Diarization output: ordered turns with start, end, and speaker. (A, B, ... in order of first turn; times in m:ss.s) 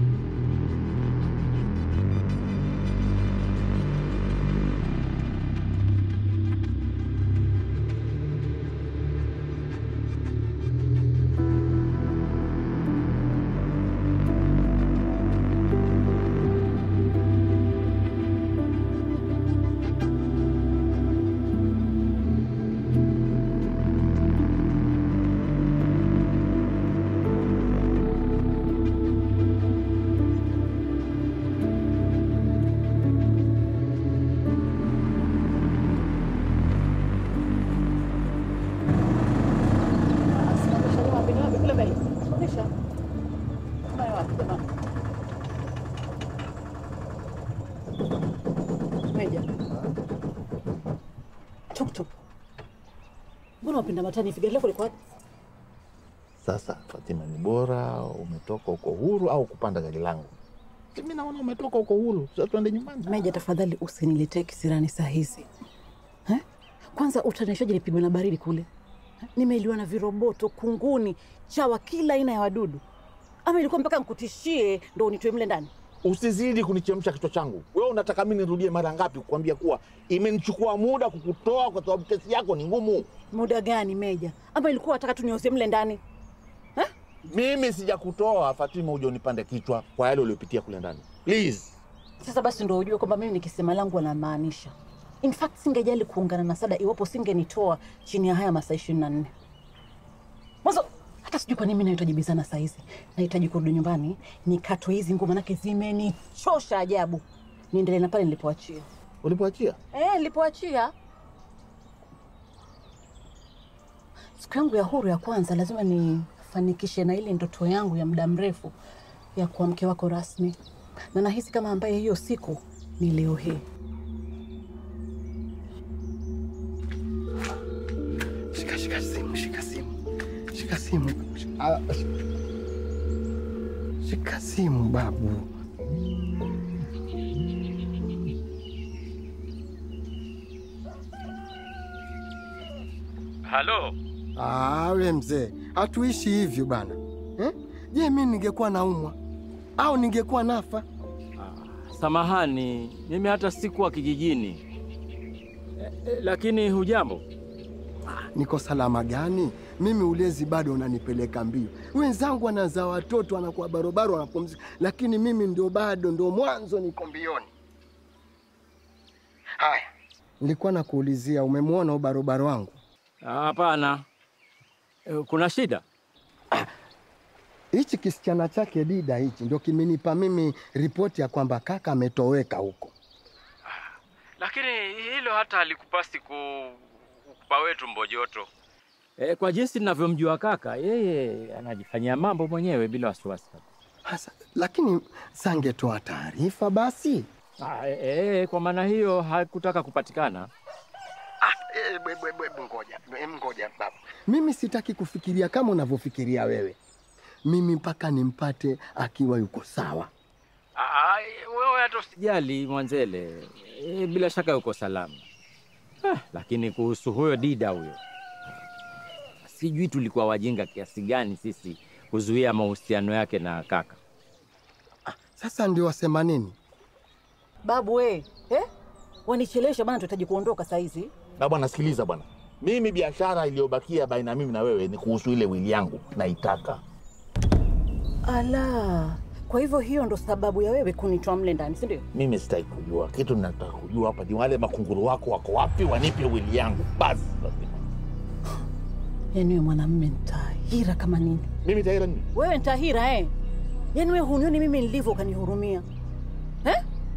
0:40.3-0:42.7 A
0:43.9-0:44.7 A
0:49.1-0:49.4 A
0:51.7-0:52.2 A
0:53.6-0:54.9 A
0:56.4-1:00.3 B
1:00.9-1:03.1 B
1:03.1-1:05.5 A
1:06.3-1:08.7 A
1:09.4-1:12.8 A
1:13.4-1:15.7 A
1:16.0-1:23.1 B
1:23.3-1:26.0 A
1:27.3-1:31.8 B
1:32.2-1:39.3 A
1:40.6-1:48.9 A
1:49.2-1:49.8 B
1:49.9-1:50.9 A
1:54.4-1:58.7 A
1:59.4-2:00.6 A
2:01.1-2:03.6 A
2:08.5-2:09.9 C
2:10.5-2:12.0 C
2:14.0-2:15.4 C
2:23.4-2:23.9 D
2:24.4-2:29.2 C
2:29.8-2:30.8 C
2:31.4-2:34.6 D
2:35.8-2:37.2 D
2:38.3-2:47.5 C
2:49.6-2:49.9 C
2:50.4-2:52.8 C
2:53.2-2:54.0 D
2:55.1-2:55.8 D
2:57.7-3:02.9 C
3:03.7-3:06.8 D
3:07.4-3:08.5 D
3:09.2-3:13.6 D
3:14.0-3:17.3 C
3:17.6-3:20.5 D
3:21.4-3:26.8 C
3:27.5-3:30.1 C
3:30.8-3:35.2 D
3:36.0-3:38.0 D
3:39.4-3:44.0 D
3:45.1-3:46.6 C
3:47.6-3:48.7 A
3:49.2-3:51.1 A
3:51.4-3:56.8 B
3:58.2-4:02.0 A
4:02.1-4:07.9 B
4:09.3-4:11.5 A
4:11.6-4:12.2 B
4:12.3-4:13.3 A
4:13.9-4:15.8 A